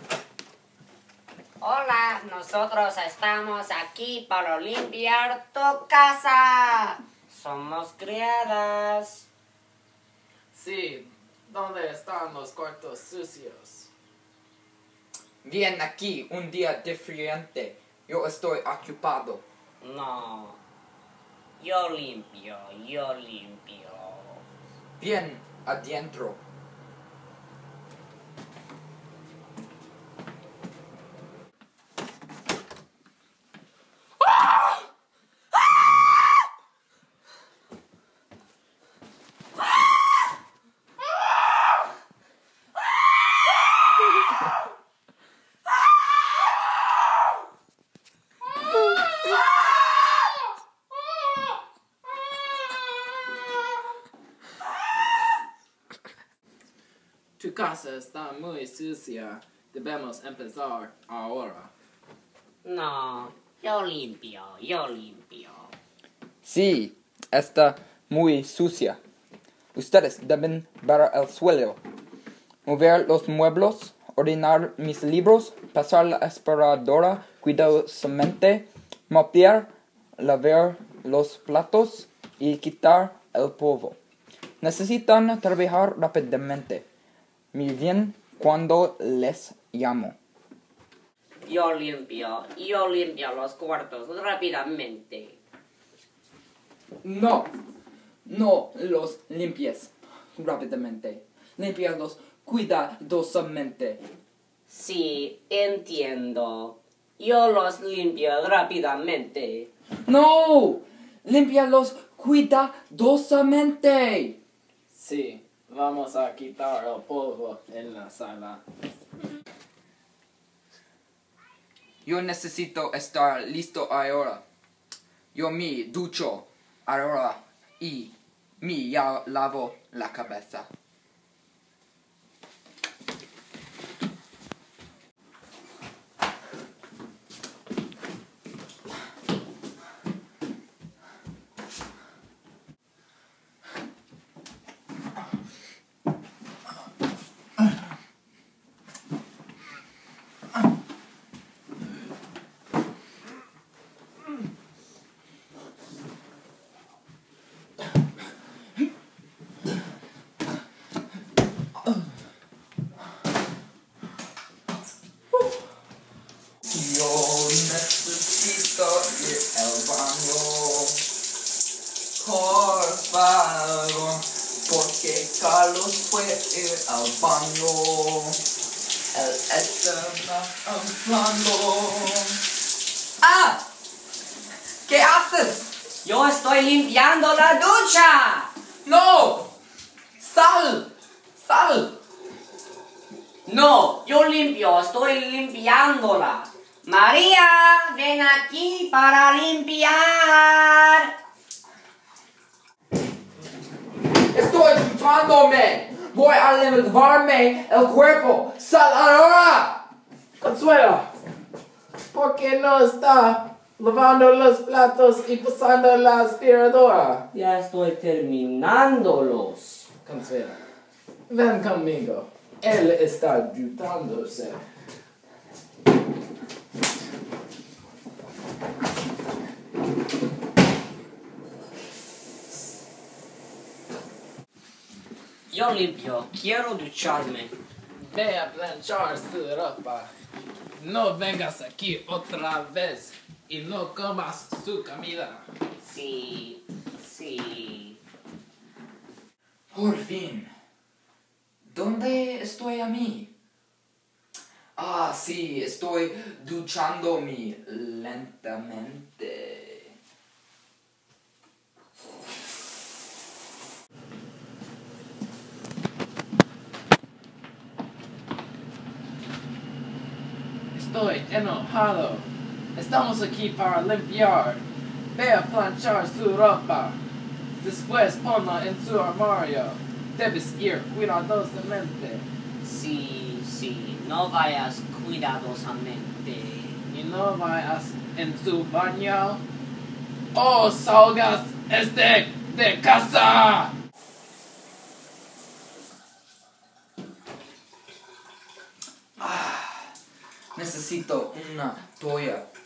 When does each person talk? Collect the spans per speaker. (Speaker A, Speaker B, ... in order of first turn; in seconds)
Speaker A: 1.6-9.3, 19.8-20.6, 21.6-24.4, 62.6-65.7, 91.5-95.4, 104.7-109.7, 186.0-188.5, 193.4-201.1, 217.3-219.9, 235.5-237.5, 245.8-248.0, 282.6-286.8
Speaker B: 10.5-13.9, 57.4-61.7, 114.9-118.6, 210.4-211.1, 212.1-217.2, 220.0-220.6, 221.3-224.6, 238.1-240.1, 240.8-245.4, 270.7-274.6, 275.1-277.0, 277.6-282.2, 286.9-289.4, 290.3-293.7
Speaker C: 15.4-19.4, 25.0-26.4, 66.4-69.0, 69.7-71.8, 72.6-84.0, 84.6-86.8, 87.5-90.2, 97.0-97.5, 98.2-104.0, 110.0-114.4, 122.0-124.4, 125.3-130.7, 166.7-171.0, 172.2-178.4, 179.1-182.4, 183.2-183.6, 184.8-185.7, 188.8-189.5, 190.2-191.9, 204.3-209.8, 249.7-250.5, 251.6-253.3, 254.8-259.9, 299.2-299.9, 300.5-302.4